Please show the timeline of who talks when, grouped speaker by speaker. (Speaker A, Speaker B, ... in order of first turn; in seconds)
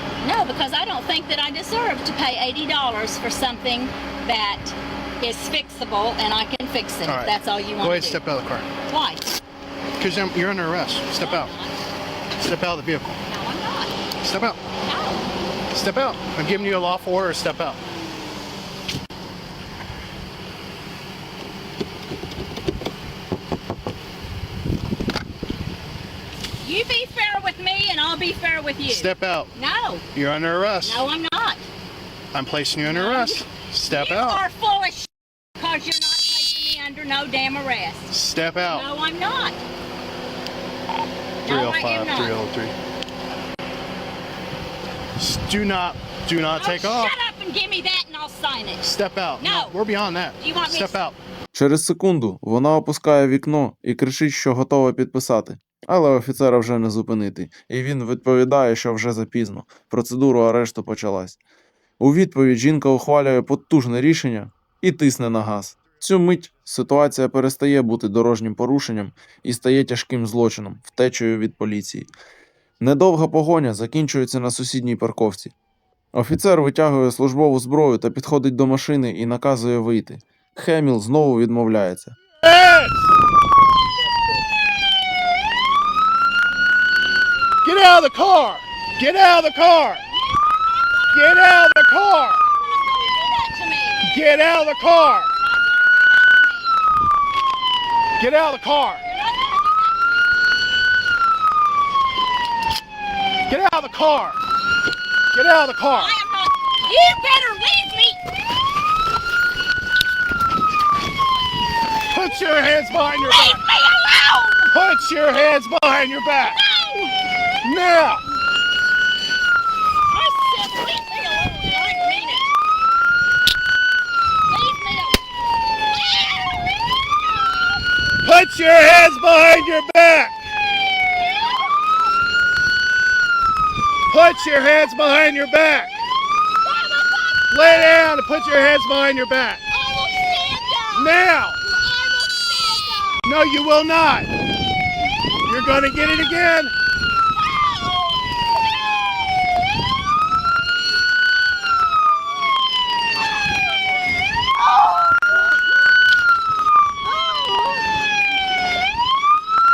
Speaker A: 0.2-8.2, 8.8-9.3, 11.2-11.7, 13.3-13.9, 14.8-15.3, 26.6-30.0, 30.8-31.6, 32.8-39.6, 41.4-42.4, 46.5-49.8, 50.4-51.0, 90.1-96.7, 98.9-100.2, 105.9-108.2, 112.2-114.7, 116.4-117.2, 120.1-122.5, 124.5-125.2, 126.0-126.9, 127.5-127.8, 131.0-132.0, 136.6-138.8, 139.7-143.3, 147.3-150.2, 154.6-155.6, 157.0-158.0
Speaker B: 7.0-8.7, 10.0-11.5, 12.4-13.2, 14.2-14.6, 15.7-17.8, 28.9-29.5, 30.1-31.0, 32.3-34.4, 38.1-38.9, 41.5-42.7, 45.2-47.1, 48.8-51.1, 82.4-83.1, 87.6-90.0, 91.1-92.4, 94.0-95.3, 98.2-99.0, 103.5-104.4, 105.3-106.1, 112.1-113.6, 114.7-116.6, 117.6-118.2, 128.2-130.3, 134.1-136.0, 137.5-139.6, 140.9-141.6, 143.2-144.3, 145.4-146.7
Speaker C: 51.5-61.4, 62.0-72.1, 72.8-75.5, 76.1-82.2